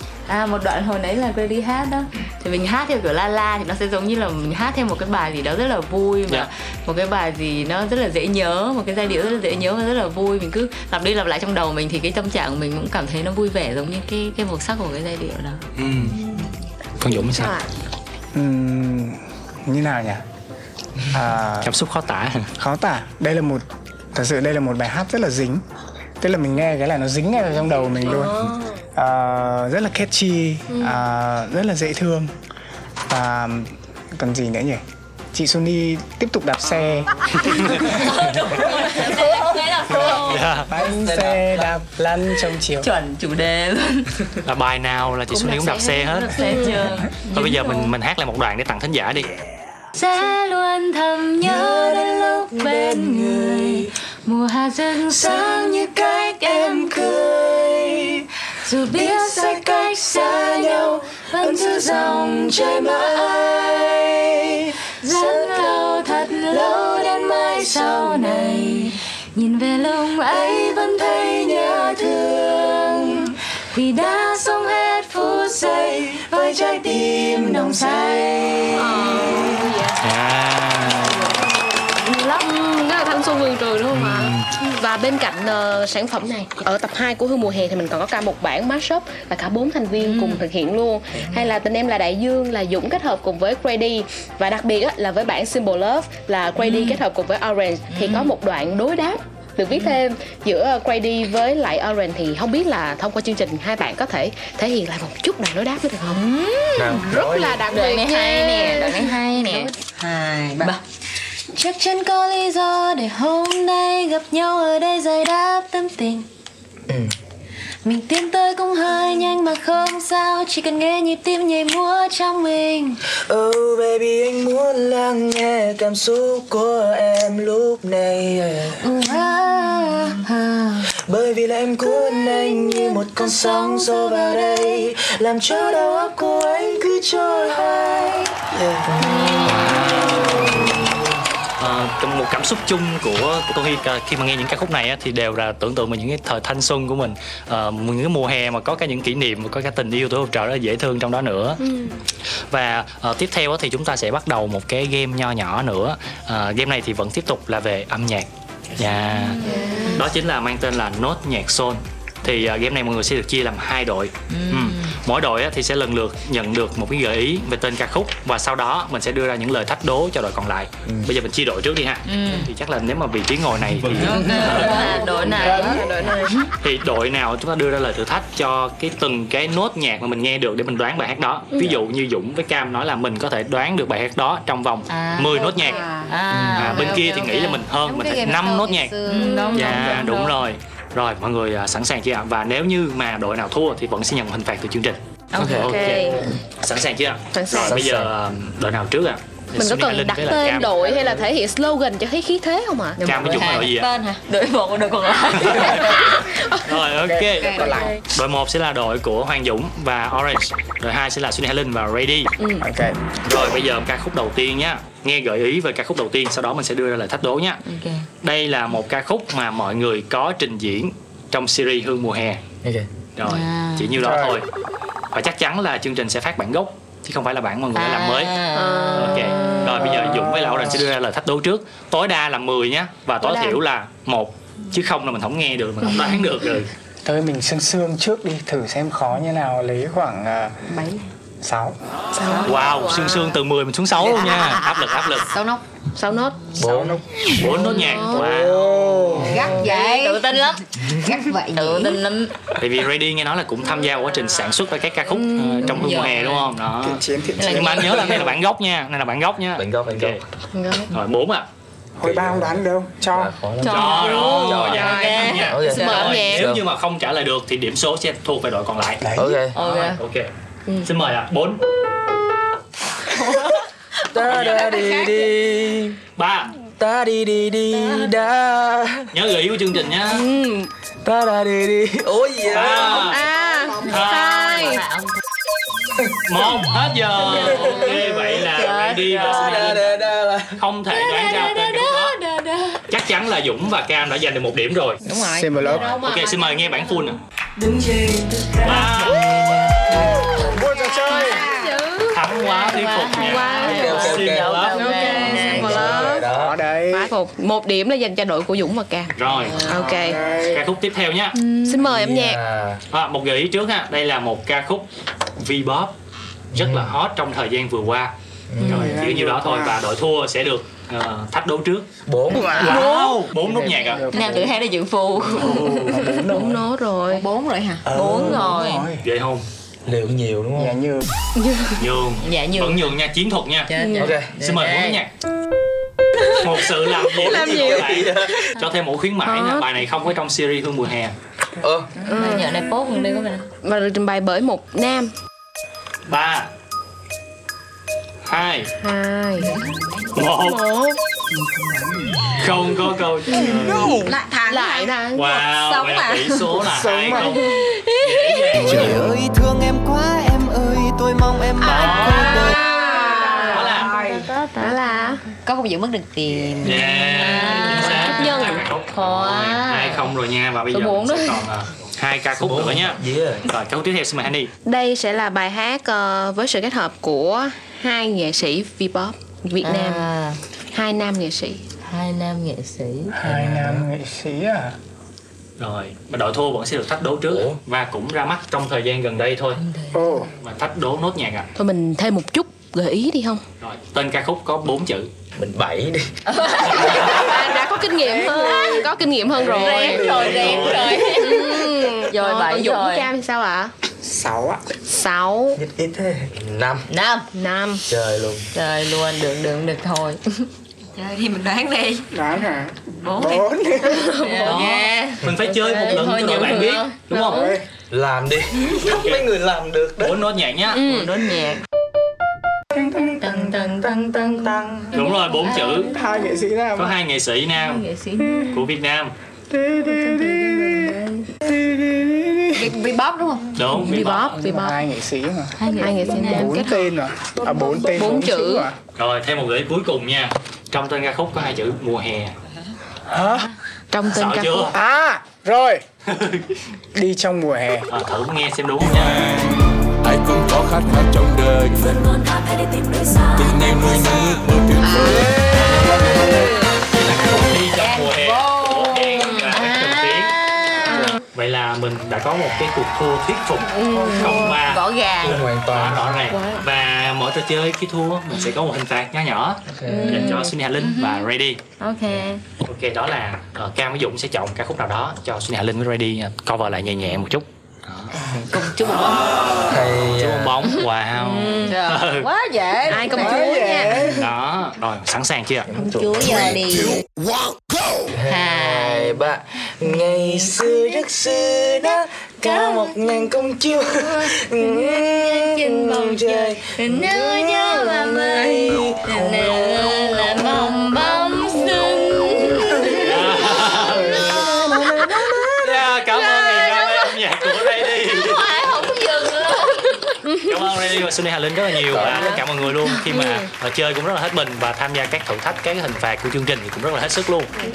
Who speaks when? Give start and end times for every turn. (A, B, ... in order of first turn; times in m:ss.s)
0:00.3-0:15.6 A
0:15.8-0:16.2 B
0:16.1-0:16.4 C
0:17.0-0:17.6 B
0:17.0-0:17.7 C
0:18.3-0:20.2 D
0:21.1-0:21.7 D
0:21.6-0:22.5 B
0:22.6-0:25.6 D
0:26.2-0:28.4 D
0:27.9-0:28.8 C
0:28.9-0:32.3 D
0:30.7-0:31.0 C
0:33.1-0:34.8 D
0:35.3-0:38.1 D
0:36.6-0:38.2 B
0:37.8-0:40.5 A
0:38.8-0:40.1 D
0:40.3-0:40.7 B
0:40.7-0:42.9 D
0:40.8-0:41.7 E
0:42.8-0:44.4 A
0:44.4-0:46.4 B
0:45.4-0:47.9 A
0:46.4-0:46.9 C
0:47.3-0:49.3 B
0:50.0-0:55.3 A
0:51.4-0:53.9 E
0:51.4-0:53.3 F
0:55.1-0:58.0 F
0:56.8-0:58.2 E
0:58.6-0:59.4 A
0:58.9-1:04.1 F
1:00.2-1:04.6 E
1:01.3-1:02.3 A
1:03.0-1:03.4 A
1:05.0-1:06.5 A
1:05.0-1:09.0 F
1:07.6-1:10.7 A
1:10.0-1:19.3 F
1:13.7-1:14.0 A
1:18.7-1:20.0 C
1:20.0-1:21.4 B
1:21.9-1:46.2 C
1:23.9-1:24.4 B
1:30.0-1:30.4 A
1:31.2-1:31.6 A
1:36.6-1:37.0 A
1:37.9-1:38.3 A
1:39.7-1:40.0 A
1:46.2-1:46.8 A
1:46.8-1:47.6 E
1:47.0-1:49.7 C
1:47.7-1:49.7 A
1:50.0-1:50.7 G
1:51.5-1:56.3 F
1:56.9-1:57.1 E
1:57.8-2:03.0 F
2:03.1-2:08.9 E
2:08.8-2:10.6 F
2:10.9-2:21.0 E
2:11.8-2:14.7 F
2:19.0-2:19.4 A
2:19.4-2:20.9 B
2:21.6-2:31.6 B
2:31.6-2:32.0 C
2:32.5-2:55.0 B
2:39.2-2:40.0 A
2:39.4-2:40.0 C
2:44.3-2:45.0 A
2:50.8-2:51.1 E
2:52.1-2:52.5 A
2:53.8-2:54.1 E
2:54.0-2:56.4 A
2:54.4-2:56.4 C
2:56.6-3:05.8 B
3:01.5-3:01.8 C
3:04.9-3:07.6 A
3:05.5-3:06.1 G
3:06.3-3:06.8 E
3:06.6-3:08.9 B
3:07.8-3:09.5 G
3:09.0-3:10.3 A
3:09.2-3:09.8 C
3:09.5-3:20.7 B
3:15.3-3:15.7 E
3:15.5-3:16.4 C
3:17.3-3:17.8 C
3:17.6-3:18.1 E
3:19.6-3:23.5 C
3:23.0-3:23.9 B
3:23.0-3:26.2 A
3:25.4-3:25.9 B
3:26.2-3:26.6 C
3:26.6-3:32.3 B
3:26.9-3:28.0 D
3:27.4-3:28.0 G
3:27.5-3:28.0 C
3:32.4-3:32.7 C
3:32.6-3:33.1 D
3:33.2-3:37.6 B
3:37.6-3:38.1 A
3:38.2-3:42.4 B
3:42.6-3:42.9 E
3:43.2-3:44.4 B
3:43.2-3:43.9 A
3:44.0-3:44.4 D
3:45.1-3:48.4 B
3:47.7-3:49.5 A
3:48.5-3:49.9 C
3:48.9-3:56.7 B
3:49.9-3:50.7 D
3:53.2-3:53.6 C
3:57.0-4:00.6 D
4:00.7-4:01.0 C
4:01.4-4:01.8 D
4:02.1-4:03.3 C
4:02.2-4:03.1 G
4:02.4-4:05.3 B
4:04.0-4:05.6 G
4:05.9-4:06.6 C
4:06.6-4:07.0 E
4:06.6-4:09.5 D
4:07.3-4:08.7 B
4:07.4-4:08.4 C
4:09.1-4:12.0 G
4:09.4-4:10.6 A
4:11.5-4:12.3 A
4:12.6-4:20.2 B
4:15.2-4:16.5 A
4:16.8-4:18.3 D
4:17.4-4:18.1 A
4:19.6-4:20.2 E
4:20.6-4:20.9 A
4:20.9-4:21.5 B
4:22.0-4:23.3 D
4:22.0-4:26.6 E
4:23.6-4:26.2 A
4:23.6-4:29.0 B
4:23.8-4:26.5 C
4:29.0-4:29.4 D
4:29.1-4:29.6 E
4:29.5-4:30.0 A
4:29.5-4:30.3 B
4:30.8-4:31.6 B
4:34.1-4:36.0 E
4:34.3-4:34.6 B
4:34.4-4:35.2 G
4:36.2-4:36.5 B
4:36.8-4:39.2 E
4:39.1-4:40.2 B
4:40.1-4:40.7 C
4:41.0-4:43.1 E
4:42.5-4:43.2 B
4:42.8-4:44.8 C
4:43.9-4:44.6 B
4:44.1-4:45.1 A
4:46.2-4:50.0 B
4:47.3-4:47.7 C
4:47.3-4:48.0 E
4:48.4-4:49.7 A
4:48.7-4:50.6 E
4:50.6-4:52.2 B
4:50.9-4:52.8 A
4:52.9-4:55.0 B
4:55.0-4:55.8 G
4:55.2-4:55.9 D
4:55.6-4:57.0 C
4:55.9-4:57.2 B
4:58.2-4:59.2 E
4:58.6-4:59.8 B
5:00.1-5:01.4 A
5:00.4-5:01.4 D
5:01.0-5:04.2 C
5:01.2-5:01.7 G
5:02.1-5:04.8 B
5:02.7-5:06.0 A
5:03.6-5:06.6 E
5:04.7-5:06.3 C
5:06.2-5:07.1 D
5:06.9-5:09.1 C
5:09.2-5:09.8 B
5:09.3-5:10.1 A
5:09.6-5:10.2 C
5:10.0-5:10.6 D
5:10.3-5:11.4 B
5:11.3-5:11.8 A
5:11.6-5:12.4 C
5:11.8-5:12.8 E
5:12.9-5:14.9 B
5:15.4-5:15.9 B
5:16.5-5:16.9 E
5:16.5-5:18.1 B
5:18.5-5:19.0 E
5:18.6-5:19.8 D
5:18.6-5:21.9 B
5:22.0-5:22.9 E
5:22.5-5:24.0 B
5:22.7-5:24.5 D
5:24.1-5:26.3 A
5:25.2-5:26.1 B
5:26.2-5:26.5 D
5:26.2-5:27.2 C
5:27.1-5:27.9 G
5:27.8-5:29.0 D
5:27.9-5:28.9 A
5:29.0-5:29.4 B
5:29.8-5:30.8 E
5:30.6-5:31.1 D
5:31.4-5:31.8 C
5:31.8-5:33.7 B
5:32.2-5:32.9 A
5:33.7-5:35.0 A
5:33.8-5:34.1 C
5:34.0-5:34.3 E
5:34.4-5:35.1 B
5:36.4-5:41.1 B
5:37.0-5:38.4 E
5:39.2-5:39.7 C
5:41.6-5:41.9 E
5:42.1-5:45.1 C
5:42.1-5:43.4 A
5:46.1-5:46.5 B
5:48.2-5:48.7 B
5:48.8-5:49.6 C
5:50.1-5:50.6 B
5:50.3-5:51.0 C
5:51.3-5:52.3 D
5:52.4-5:54.1 B
5:53.3-5:55.4 C
5:53.4-5:56.6 G
5:53.7-5:54.1 H
5:55.1-5:59.1 B
5:56.6-5:57.5 D
5:58.7-5:59.2 H
6:01.3-6:04.2 G
6:01.6-6:02.4 B
6:01.8-6:03.7 C
6:03.0-6:05.0 A
6:03.5-6:03.9 B
6:04.6-6:05.2 C
6:05.4-6:06.9 G
6:06.6-6:14.5 B
6:06.7-6:10.1 A
6:07.8-6:08.6 C
6:10.7-6:11.4 A
6:12.3-6:13.5 E
6:14.6-6:20.1 C
6:19.6-6:20.4 A
6:20.7-6:21.6 C
6:21.8-6:23.1 A
6:23.1-6:24.8 D
6:23.3-6:23.8 E
6:25.6-6:29.6 B
6:27.3-6:27.6 E
6:29.6-6:30.2 A
6:29.9-6:30.3 D
6:30.4-6:31.5 B
6:31.6-6:33.4 C
6:33.6-6:35.1 B
6:35.4-6:36.3 E
6:36.3-6:37.3 A
6:36.7-6:37.3 B
6:36.7-6:43.8 C
6:38.0-6:38.8 D
6:38.1-6:38.9 A
6:39.4-6:43.1 A
6:39.6-6:40.8 D
6:40.0-6:41.1 B
6:44.0-6:44.7 D
6:44.8-6:45.6 C
6:45.5-6:46.9 E
6:46.9-6:47.3 A
6:47.3-6:47.8 C
6:47.8-6:48.5 E
6:48.5-6:50.5 A
6:51.0-6:52.0 G
6:52.1-6:54.0 D
6:53.0-6:57.1 A
6:53.8-6:54.9 C
6:54.4-6:57.6 B
6:55.8-6:57.2 C
6:57.2-6:57.6 D
6:57.9-7:00.2 E
6:58.8-6:59.3 B
7:00.0-7:00.8 B
7:00.7-7:01.1 C
7:00.7-7:01.6 A
7:02.7-7:03.9 D
7:03.2-7:06.0 A
7:04.9-7:05.9 B
7:05.9-7:06.9 D
7:06.7-7:07.8 B
7:07.6-7:08.6 A
7:08.5-7:09.1 B
7:09.5-7:12.7 D
7:09.7-7:11.1 A
7:12.5-7:13.5 G
7:13.5-7:14.4 B
7:13.7-7:14.8 C
7:14.4-7:18.8 D
7:15.6-7:16.6 A
7:15.7-7:16.9 C
7:17.6-7:18.7 C
7:19.0-7:22.3 B
7:23.1-7:23.5 D
7:23.9-7:24.7 C
7:24.0-7:24.7 B
7:24.7-7:25.8 D
7:26.1-7:26.6 B
7:26.9-7:27.9 D
7:27.9-7:29.3 B
7:28.8-7:32.2 H
7:32.2-7:34.0 F
7:33.3-7:35.8 H
7:34.8-7:36.6 G
7:36.9-7:40.4 B
7:39.4-7:41.0 A
7:40.8-7:41.2 C
7:41.3-7:51.6 B
7:43.7-7:44.6 C
7:43.9-7:45.3 A
7:45.2-7:46.3 E
7:46.3-7:46.6 A
7:49.7-7:50.3 E
7:49.8-7:50.5 C
7:49.9-7:51.3 A
7:51.8-7:52.4 A
7:52.6-7:58.1 B
7:58.1-7:59.3 G
7:58.5-7:59.0 A
7:59.7-8:00.7 E
7:59.9-8:02.3 B
8:01.2-8:02.1 A
8:01.3-8:04.0 G
8:02.9-8:04.3 C
8:03.3-8:04.2 D
8:04.2-8:05.7 B
8:05.7-8:07.0 E
8:05.7-8:07.0 G
8:06.9-8:07.7 H
8:08.1-8:20.7 E
8:08.3-8:09.2 A
8:09.8-8:10.5 A
8:12.4-8:12.9 A
8:14.0-8:23.1 A
8:22.7-8:26.0 E
8:23.0-8:24.2 B
8:25.6-8:28.5 B
8:26.2-8:26.9 A
8:28.2-8:30.1 A
8:30.5-8:37.5 B
8:31.8-8:32.4 C
8:31.9-8:32.2 E
8:33.1-8:33.5 C